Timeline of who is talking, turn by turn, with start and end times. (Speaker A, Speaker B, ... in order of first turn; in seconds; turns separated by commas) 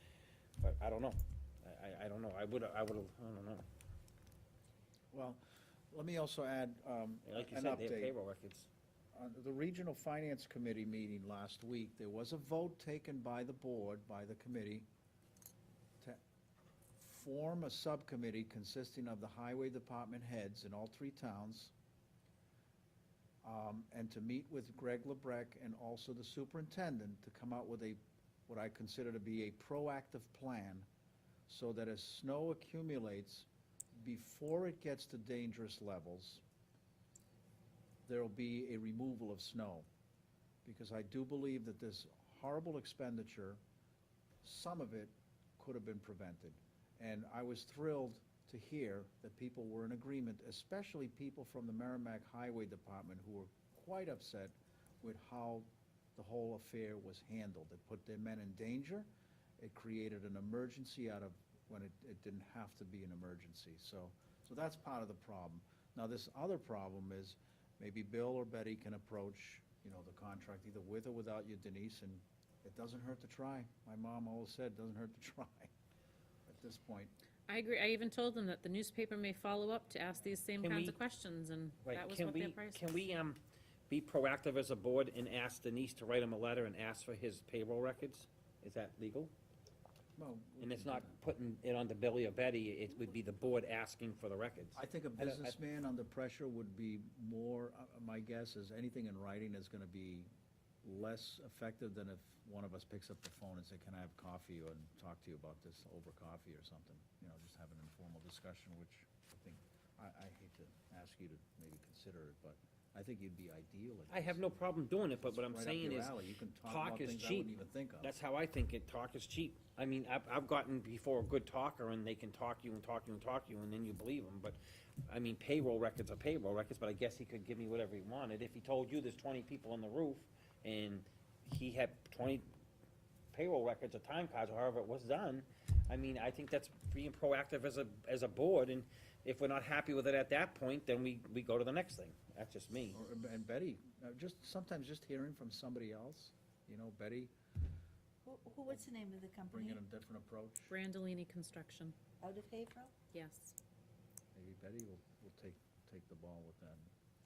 Speaker A: 0.6-3.6, Speaker B: 5.1-8.2, Speaker A: 7.2-8.7, Speaker B: 9.1-14.9, Speaker B: 17.0-21.7, Speaker B: 23.4-30.9, Speaker B: 31.5-36.4, Speaker B: 38.0-39.9, Speaker B: 40.6-43.6, Speaker B: 44.4-75.7, Speaker B: 76.5-77.1, Speaker C: 77.5-82.9, Speaker A: 80.6-81.0, Speaker A: 81.8-89.3, Speaker B: 90.2-91.1, Speaker A: 90.6-95.5, Speaker B: 94.8-100.3, Speaker B: 100.8-114.4, Speaker A: 114.1-132.5, Speaker B: 115.2-118.1, Speaker A: 133.3-143.0, Speaker B: 142.9-147.3, Speaker D: 148.2-149.8, Speaker B: 149.5-150.7, Speaker C: 150.7-151.9, Speaker D: 152.2-152.9, Speaker C: 153.1-153.5, Speaker B: 154.3-156.9